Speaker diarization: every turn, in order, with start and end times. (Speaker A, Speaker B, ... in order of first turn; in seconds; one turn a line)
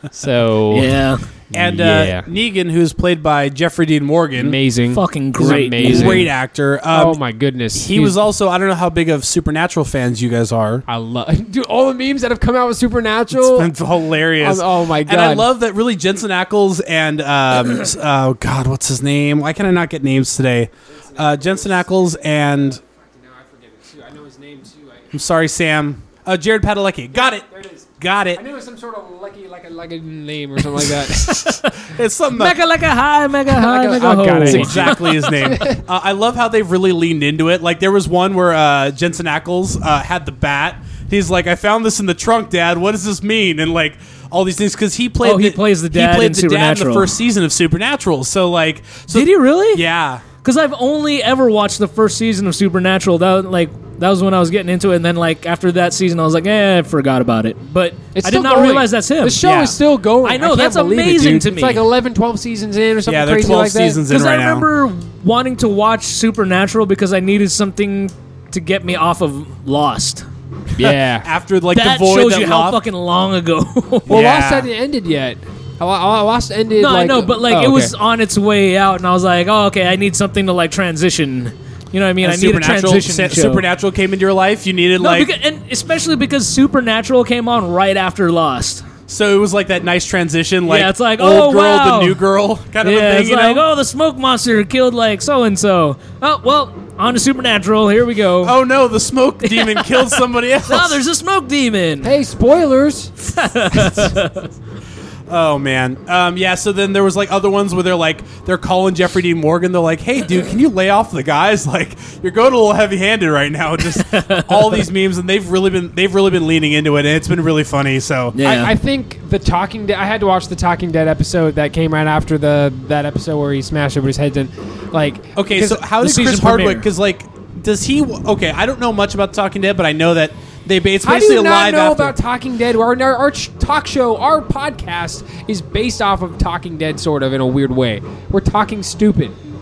Speaker A: 0.1-2.2
Speaker B: 0.7-1.2
Speaker C: 1.5-4.6
Speaker A: 4.4-6.3
Speaker B: 4.9-6.2
Speaker C: 5.8-7.2
Speaker A: 6.9-8.2
Speaker C: 7.7-10.8
Speaker A: 10.9-15.5
Speaker C: 13.3-22.8
Speaker A: 21.0-25.1
Speaker C: 25.1-27.5
Speaker A: 27.2-31.6
Speaker C: 28.0-28.4
Speaker B: 31.4-31.7
Speaker C: 31.5-32.6
Speaker B: 32.3-35.5
Speaker A: 33.5-35.8
Speaker C: 34.4-50.2
Speaker B: 45.2-47.1
Speaker B: 49.1-49.8
Speaker B: 50.4-59.4
Speaker A: 58.1-64.0
Speaker C: 59.4-59.7
Speaker B: 60.2-61.8
Speaker C: 63.0-64.7
Speaker B: 64.1-70.2
Speaker A: 70.8-71.3
Speaker C: 70.8-72.8
Speaker B: 71.7-74.2
Speaker C: 74.1-74.7
Speaker A: 74.1-77.9
Speaker B: 76.8-83.6
Speaker C: 82.2-85.3
Speaker B: 85.0-88.8
Speaker C: 89.1-93.6
Speaker B: 90.7-92.2
Speaker B: 92.8-98.6
Speaker C: 98.4-101.0
Speaker B: 99.4-102.1
Speaker A: 102.0-103.1
Speaker B: 103.3-104.5
Speaker A: 103.7-104.1
Speaker C: 105.3-118.4
Speaker B: 113.9-114.8
Speaker B: 118.3-118.7
Speaker A: 118.4-125.8
Speaker C: 125.3-132.2
Speaker B: 125.8-126.9
Speaker A: 131.0-139.4